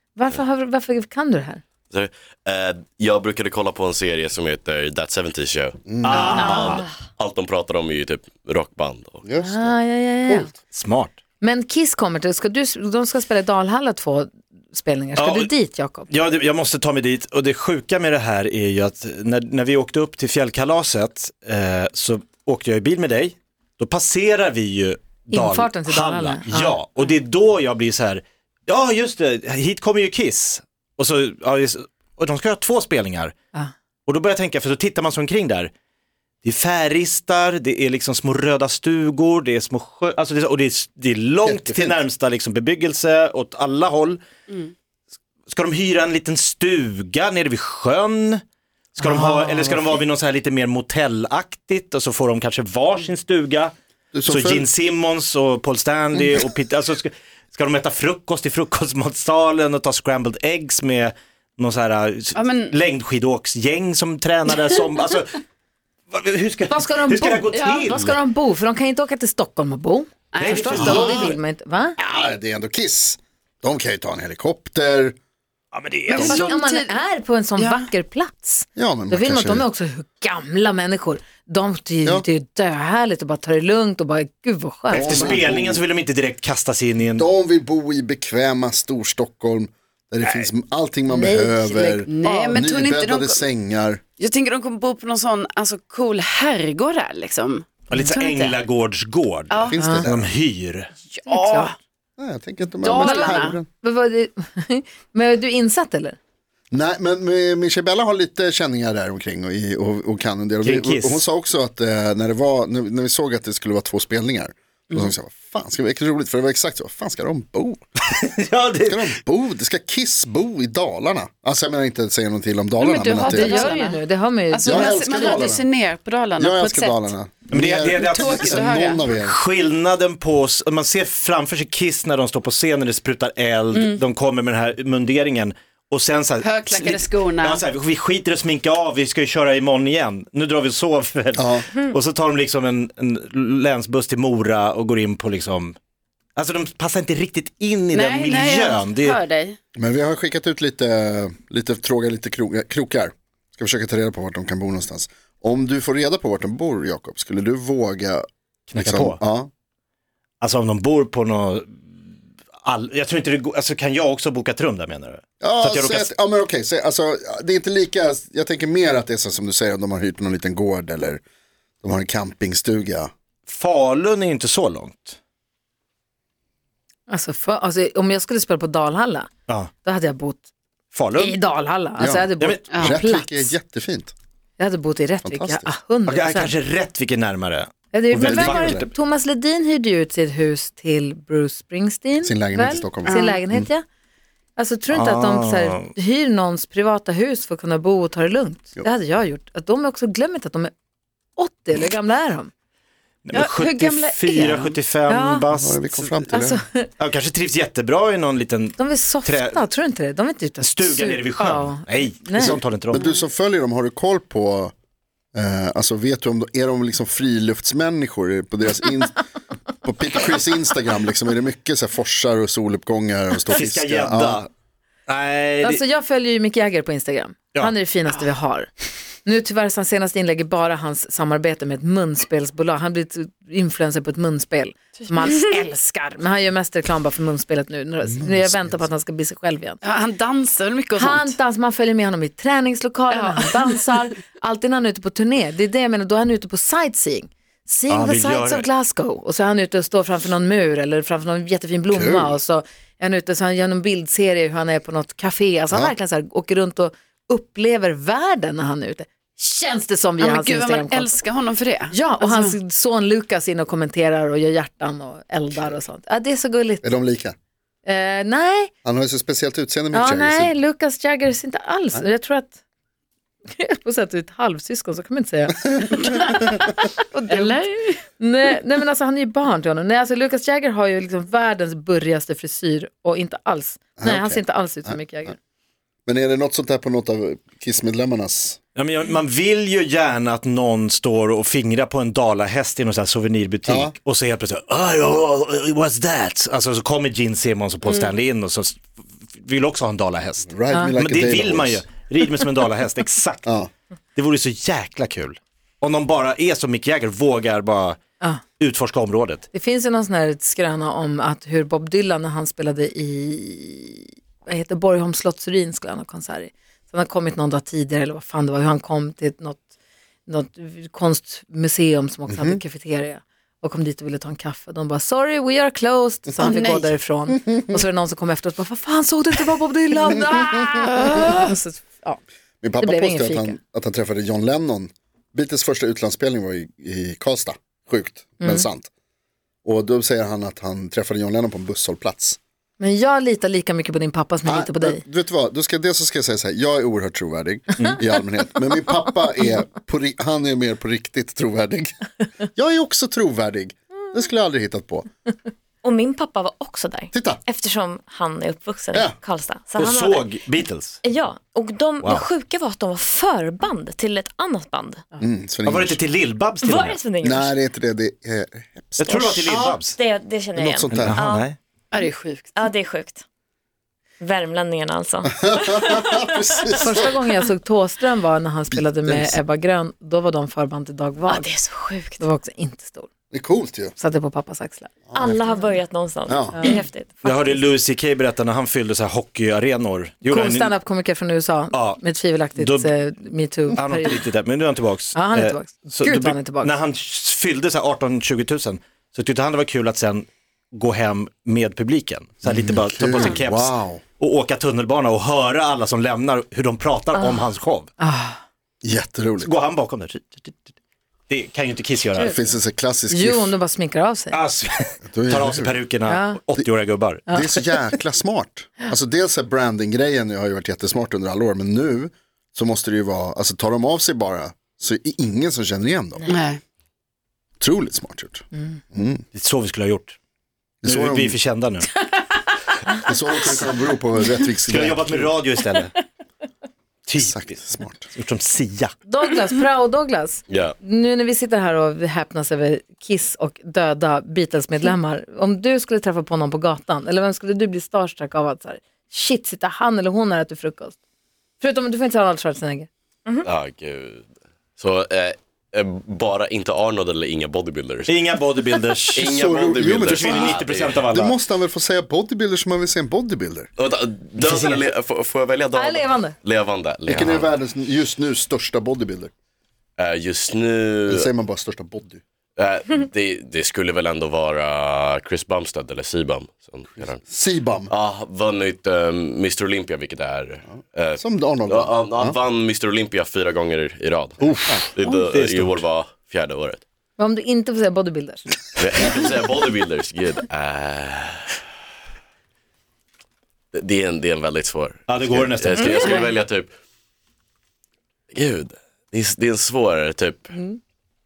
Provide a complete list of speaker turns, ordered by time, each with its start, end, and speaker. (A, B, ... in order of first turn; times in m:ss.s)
0:00.2-0:01.6 A
0:01.9-0:09.2 B
0:05.9-0:06.4 C
0:06.0-0:06.8 D
0:09.2-0:09.7 C
0:09.4-0:10.5 A
0:10.7-0:11.2 D
0:11.4-0:16.1 A
0:15.2-0:15.5 D
0:16.1-0:33.3 D
0:25.3-0:26.8 A
0:34.1-0:35.7 D
0:36.4-0:44.2 D
0:41.4-0:42.0 C
0:45.5-0:48.4 D
0:49.0-0:53.7 D
0:49.0-0:49.9 A
0:54.1-0:54.7 C
0:54.3-1:05.4 D
1:02.4-1:02.7 E
1:06.1-1:08.2 D
1:06.7-1:12.0 A
1:07.5-1:07.9 E
1:10.3-1:11.0 E
1:10.4-1:11.3 D
1:10.8-1:11.4 C
1:12.0-1:15.2 C
1:15.7-1:16.3 D
1:16.1-1:16.9 E
1:16.1-1:25.3 A
1:17.6-1:17.9 E
1:18.8-1:19.7 C
1:24.9-1:25.8 C
1:24.9-1:27.3 D
1:27.1-1:34.0 C
1:31.1-1:32.6 A
1:32.1-1:33.5 E
1:34.2-1:38.6 E
1:37.9-1:40.9 D
1:39.5-1:39.9 E
1:39.7-1:40.3 C
1:39.8-1:40.1 A
1:41.1-1:41.8 E
1:41.3-1:41.7 A
1:42.2-1:43.7 C
1:42.8-1:43.6 E
1:43.0-1:46.2 A
1:46.7-1:57.8 C
1:50.6-1:51.2 D
1:58.1-1:59.1 D
1:58.8-2:03.7 C
2:02.8-2:07.2 E
2:03.3-2:04.9 A
2:04.6-2:05.6 C
2:06.4-2:09.4 C
2:07.5-2:25.8 D
2:07.9-2:09.1 E
2:13.7-2:14.0 E
2:16.4-2:17.6 E
2:21.4-2:21.7 C
2:26.4-2:29.2 D
2:27.9-2:29.6 E
2:29.8-2:39.5 C
2:38.7-2:39.2 D
2:40.4-2:42.0 D
2:42.7-2:46.1 D
2:45.4-2:51.2 C
2:51.8-2:53.1 C
2:53.5-2:55.2 D
2:57.1-2:59.3 A
2:59.8-3:00.5 A
3:00.9-3:01.4 D
3:01.2-3:03.6 A
3:02.0-3:04.1 C
3:02.7-3:03.0 E
3:04.6-3:06.6 A
3:05.2-3:05.7 C
3:06.1-3:08.9 D
3:07.9-3:13.9 A
3:08.2-3:08.9 C
3:12.2-3:13.7 C
3:13.0-3:13.4 E
3:14.6-3:20.7 A
3:14.9-3:15.9 D
3:21.4-3:22.5 A
3:23.2-3:26.2 D
3:23.3-3:24.8 E
3:25.1-3:25.5 A
3:25.5-3:26.6 C
3:26.3-3:26.9 A
3:27.0-3:29.6 D
3:28.8-3:32.6 A
3:30.6-3:33.0 D
3:32.4-3:34.7 C
3:35.3-3:39.2 C
3:39.8-3:44.5 C
3:43.5-3:44.5 D
3:45.1-3:45.8 D
3:45.6-3:48.7 A
3:49.2-3:59.8 A
3:58.2-3:58.7 C
3:59.8-4:01.4 E
4:01.0-4:21.1 A
4:03.1-4:03.8 E
4:07.9-4:08.7 D
4:11.9-4:12.4 C
4:20.2-4:22.6 E
4:21.9-4:26.9 A
4:26.8-4:27.4 C
4:27.8-4:28.7 A
4:28.8-4:30.5 C
4:29.9-4:32.6 A
4:33.6-4:36.4 A
4:37.0-4:37.6 A
4:37.3-4:38.0 E
4:38.2-4:45.4 A
4:44.0-4:45.0 C
4:46.1-4:48.6 C
4:48.8-5:03.6 D
4:53.7-4:54.0 C
5:00.5-5:01.9 C
5:04.2-5:08.0 D
5:08.6-5:09.4 D
5:09.5-5:19.6 A
5:20.3-5:32.2 A
5:22.3-5:22.6 C
5:26.4-5:27.0 E
5:30.8-5:31.5 E
5:32.6-5:38.9 C
5:32.8-5:33.6 A
5:38.4-5:38.7 A
5:39.6-5:42.4 C
5:42.8-5:45.0 A
5:44.4-5:51.9 C
5:52.6-5:55.1 C
5:55.8-6:00.4 F
5:57.1-5:57.4 C
5:59.8-6:01.0 D
6:01.0-6:05.0 F
6:02.0-6:02.3 D
6:05.2-6:06.0 C
6:05.7-6:07.0 D
6:06.6-6:07.6 F
6:07.2-6:09.2 C
6:09.0-6:10.0 D
6:09.0-6:11.5 F
6:10.6-6:11.2 C
6:10.9-6:11.6 D
6:11.9-6:12.7 E
6:12.5-6:13.2 F
6:14.2-6:16.8 F
6:15.3-6:17.1 C
6:16.8-6:23.1 A
6:18.7-6:19.4 C
6:21.3-6:22.3 F
6:23.3-6:24.0 C
6:24.0-6:24.9 A
6:25.1-6:27.7 F
6:26.3-6:26.7 C
6:27.2-6:30.7 D
6:30.3-6:34.2 A
6:31.7-6:32.0 D
6:32.6-6:32.9 D
6:33.8-6:47.9 D
6:35.1-6:36.7 A
6:42.4-6:44.0 C
6:47.2-6:47.4 F
6:48.0-6:48.4 A
6:48.8-6:49.5 C
6:49.4-6:50.7 D
6:51.3-6:52.4 D
6:52.2-6:53.6 C
6:53.1-6:54.4 A
6:54.3-6:57.4 D
6:55.1-6:55.9 C
6:56.1-6:56.4 A
6:57.3-6:57.7 A
6:57.3-7:06.3 C
7:06.3-7:06.6 E
7:07.6-7:09.2 C
7:09.3-7:10.2 D
7:10.8-7:11.4 C
7:10.8-7:11.9 D
7:13.0-7:15.3 C
7:14.7-7:16.0 D
7:17.1-7:18.9 D
7:17.2-7:18.1 C
7:19.1-7:31.0 A
7:20.5-7:20.8 B
7:31.6-7:32.9 A
7:33.4-7:34.3 B
7:34.8-7:38.2 B
7:38.1-7:39.3 D
7:39.2-7:41.1 B
7:39.2-7:40.6 C
7:40.0-7:41.4 D
7:41.1-7:43.7 C
7:43.8-7:47.5 B
7:45.7-7:46.4 A
7:47.1-7:49.3 C
7:50.0-7:51.3 B
7:51.1-7:52.2 C
7:52.6-7:57.2 B
7:57.2-7:57.9 C
7:57.9-8:06.8 B
8:01.2-8:02.4 C
8:04.4-8:04.8 C
8:04.5-8:05.8 D
8:07.2-8:08.5 A
8:08.8-8:11.6 B
8:13.7-8:16.7 B
8:15.1-8:16.0 D
8:16.0-8:16.4 E
8:18.3-8:20.5 B
8:20.5-8:20.8 A